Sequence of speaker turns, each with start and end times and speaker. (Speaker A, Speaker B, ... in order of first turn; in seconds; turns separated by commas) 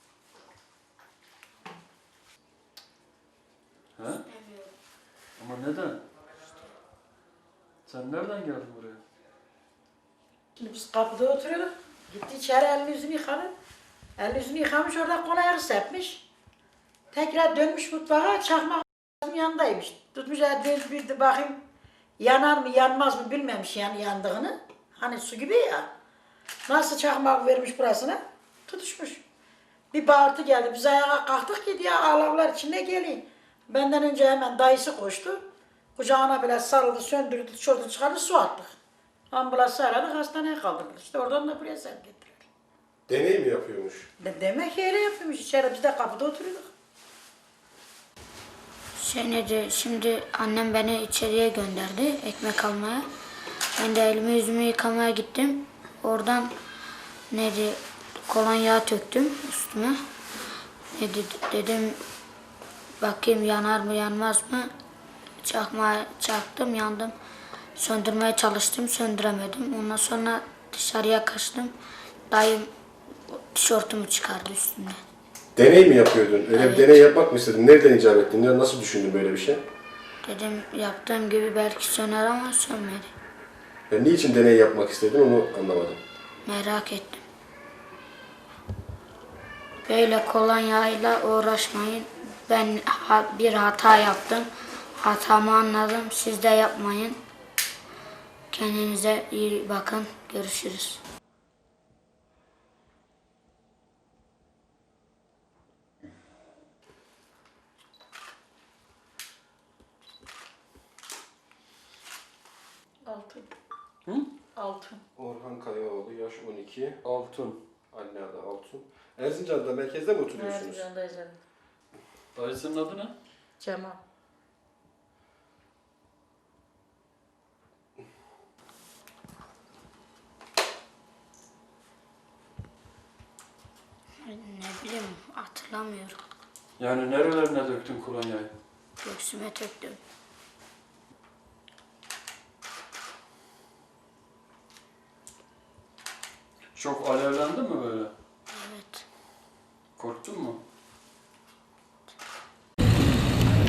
Speaker A: 4.0-4.2, Speaker B: 4.0-4.7, Speaker A: 5.4-6.0, Speaker A: 7.8-9.0, Speaker C: 10.6-13.5, Speaker C: 14.2-16.2, Speaker C: 17.1-21.6, Speaker C: 22.2-25.9, Speaker C: 26.6-29.2, Speaker C: 29.9-35.4, Speaker C: 36.0-38.7, Speaker C: 39.3-42.5, Speaker D: 43.1-44.1, Speaker C: 44.2-46.7, Speaker B: 49.0-53.0, Speaker B: 53.8-56.5, Speaker B: 57.3-60.0, Speaker B: 60.9-62.0, Speaker B: 63.0-64.7, Speaker B: 65.4-67.1, Speaker B: 67.8-71.7, Speaker B: 72.3-72.7, Speaker B: 73.3-75.0, Speaker D: 75.5-79.6, Speaker B: 76.5-77.2, Speaker B: 80.2-83.1, Speaker D: 83.9-86.0, Speaker B: 86.5-87.2, Speaker B: 89.8-94.5, Speaker B: 95.0-97.2, Speaker B: 98.5-101.0, Speaker C: 113.1-113.4, Speaker C: 114.6-114.9, Speaker D: 115.2-117.0, Speaker A: 117.0-117.6, Speaker D: 117.9-120.9, Speaker A: 122.3-123.1, Speaker C: 123.6-123.9, Speaker B: 134.2-136.2, Speaker A: 136.8-138.5, Speaker B: 139.0-140.0, Speaker A: 146.7-148.1, Speaker B: 148.5-149.1, Speaker A: 150.0-150.6